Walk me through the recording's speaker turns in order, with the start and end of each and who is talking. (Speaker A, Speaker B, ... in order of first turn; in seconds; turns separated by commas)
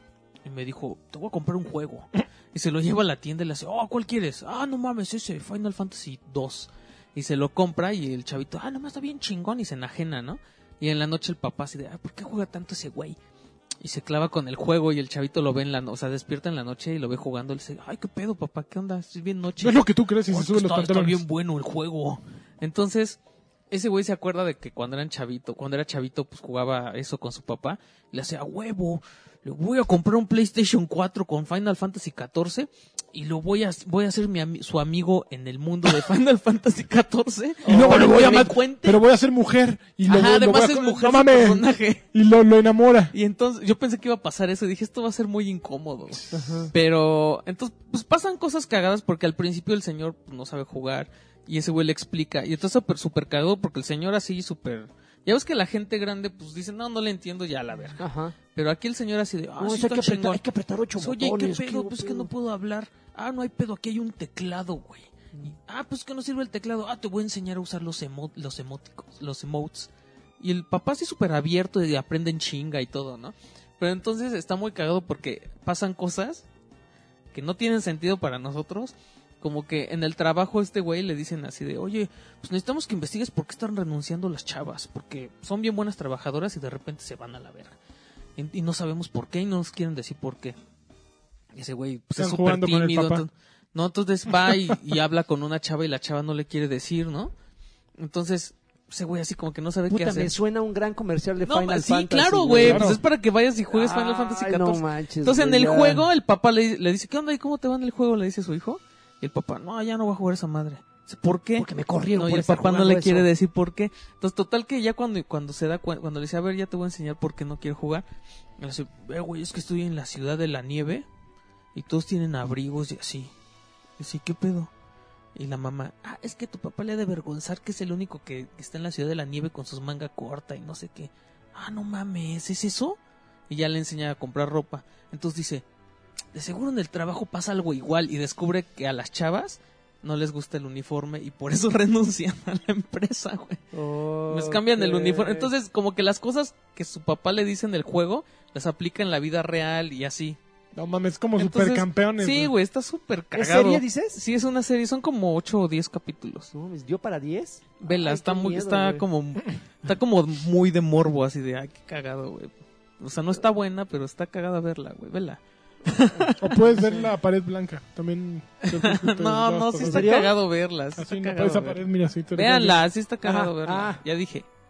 Speaker A: 0.5-13.2, Speaker A: 13.8-23.2, Speaker B: 19.6-21.2, Speaker A: 23.7-39.0, Speaker B: 37.6-43.1, Speaker C: 37.7-38.0, Speaker A: 40.1-42.0, Speaker A: 43.1-58.0, Speaker C: 46.3-46.7, Speaker C: 58.0-58.4, Speaker A: 58.5-60.4, Speaker C: 59.6-62.3, Speaker A: 61.0-76.5, Speaker A: 77.3-87.8, Speaker A: 88.4-90.6, Speaker A: 91.5-97.3, Speaker B: 92.2-93.2, Speaker B: 94.5-94.8, Speaker A: 98.0-100.3, Speaker C: 99.9-103.0, Speaker A: 101.4-118.1, Speaker B: 102.6-103.0, Speaker C: 103.7-106.1, Speaker C: 111.6-113.3, Speaker A: 118.6-121.1, Speaker A: 121.7-123.3, Speaker A: 124.0-124.7, Speaker A: 125.3-135.7, Speaker A: 136.3-143.6, Speaker C: 143.7-145.5, Speaker A: 144.3-150.4, Speaker B: 150.8-152.5, Speaker A: 151.4-156.5, Speaker C: 153.3-154.2, Speaker C: 156.5-159.0, Speaker A: 157.8-166.9, Speaker B: 166.4-170.2, Speaker A: 168.6-174.5, Speaker C: 169.8-170.4, Speaker B: 170.9-172.8, Speaker C: 173.2-174.0